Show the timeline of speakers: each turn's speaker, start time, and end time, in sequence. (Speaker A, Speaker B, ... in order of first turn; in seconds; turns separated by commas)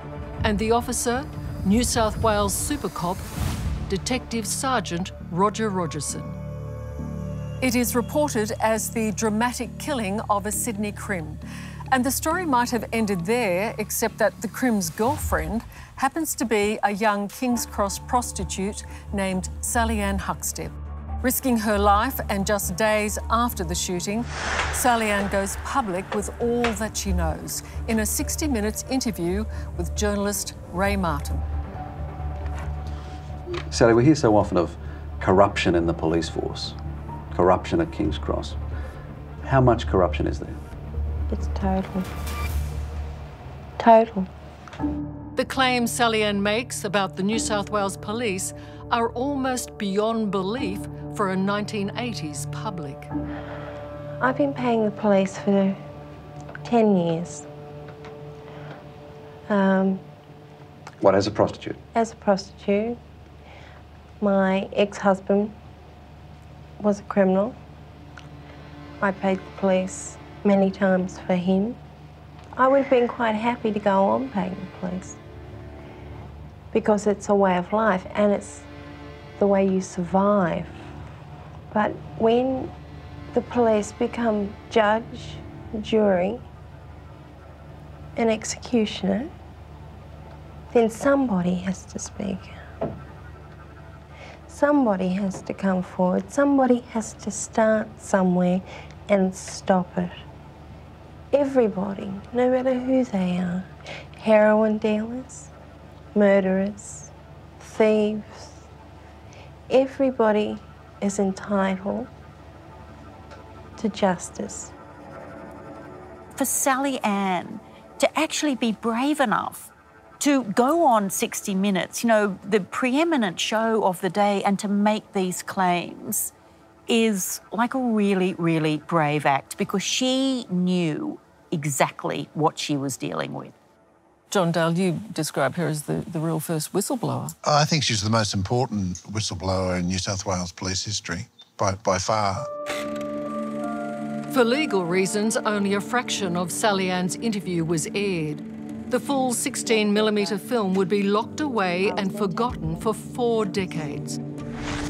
Speaker A: 0.4-3.3, Speaker A: 3.9-6.4, Speaker A: 7.6-11.4, Speaker A: 11.9-31.4, Speaker B: 33.7-36.8, Speaker B: 37.3-38.6, Speaker B: 39.4-40.6, Speaker C: 41.3-42.1, Speaker C: 43.8-44.3, Speaker A: 45.4-53.1, Speaker C: 54.2-55.8, Speaker C: 56.6-57.5, Speaker C: 59.5-60.0, Speaker B: 61.0-61.8, Speaker C: 61.9-63.0, Speaker C: 64.2-65.5, Speaker C: 66.8-67.6, Speaker C: 69.0-71.8, Speaker C: 72.6-75.2, Speaker C: 76.7-78.7, Speaker C: 79.4-80.8, Speaker C: 81.7-82.7, Speaker C: 83.3-86.5, Speaker C: 88.2-89.3, Speaker C: 90.7-92.6, Speaker C: 94.5-100.2, Speaker C: 101.3-105.5, Speaker C: 106.2-108.6, Speaker C: 109.7-112.1, Speaker C: 113.8-114.7, Speaker D: 116.4-126.3, Speaker D: 126.9-133.5, Speaker A: 134.3-137.3, Speaker E: 137.4-142.5, Speaker A: 144.3-154.2